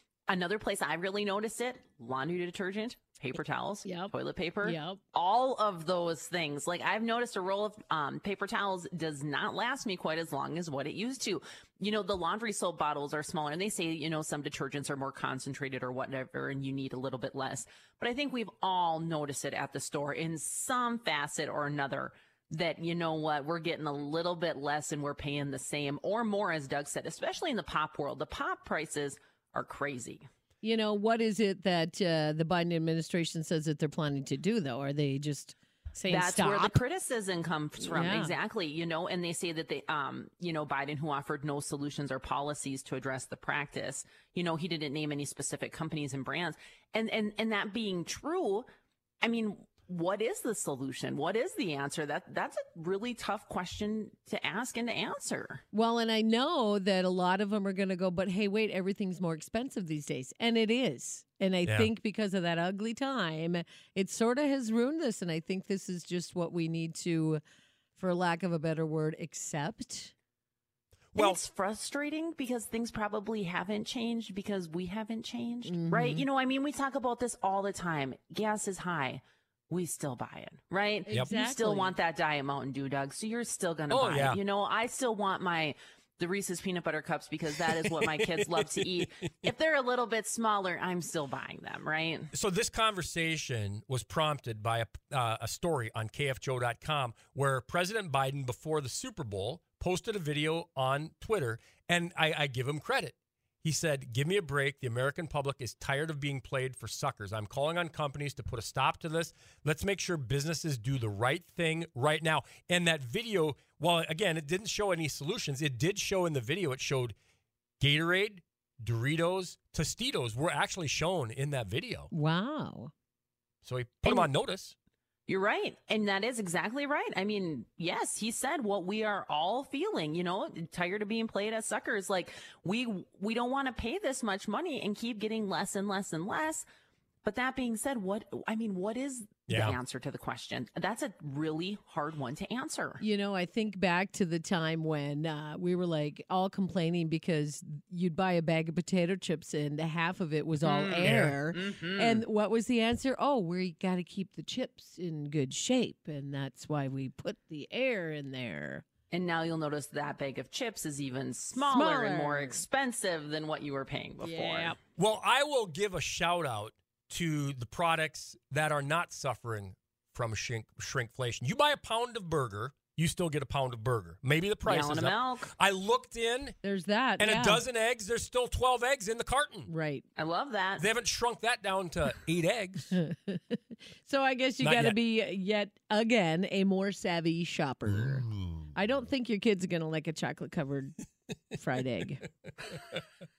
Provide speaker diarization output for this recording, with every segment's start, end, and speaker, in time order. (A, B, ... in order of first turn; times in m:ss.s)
0:00.3-0:30.2 A
0:03.8-0:05.0 B
0:30.6-0:36.8 B
0:36.1-0:48.6 A
0:37.8-0:38.4 B
0:49.2-0:55.6 A
0:55.7-1:07.4 B
1:01.6-1:01.9 C
1:08.0-1:10.1 B
1:11.1-1:11.4 C
1:11.2-1:32.3 A
1:15.6-1:16.2 B
1:21.1-1:22.0 B
1:23.9-1:24.4 C
1:32.3-1:57.1 C
1:57.8-2:02.1 C
2:02.1-2:02.9 B
2:03.6-2:04.7 C
2:05.3-2:16.6 A
2:17.2-2:23.0 A
2:19.5-2:19.8 C
2:23.0-2:38.8 B
2:30.6-2:32.2 A
2:31.0-2:31.4 C
2:39.1-2:44.8 A
2:41.6-2:42.6 B
2:44.2-2:44.8 B
2:45.0-2:56.6 C
2:54.6-2:55.5 A
2:56.6-2:57.6 B
2:57.2-2:59.7 C
2:59.7-3:00.0 B
3:00.2-3:00.9 A
3:00.8-3:03.0 C
3:02.9-3:11.0 B
3:04.6-3:05.0 C
3:07.9-3:08.7 C
3:11.5-3:12.3 B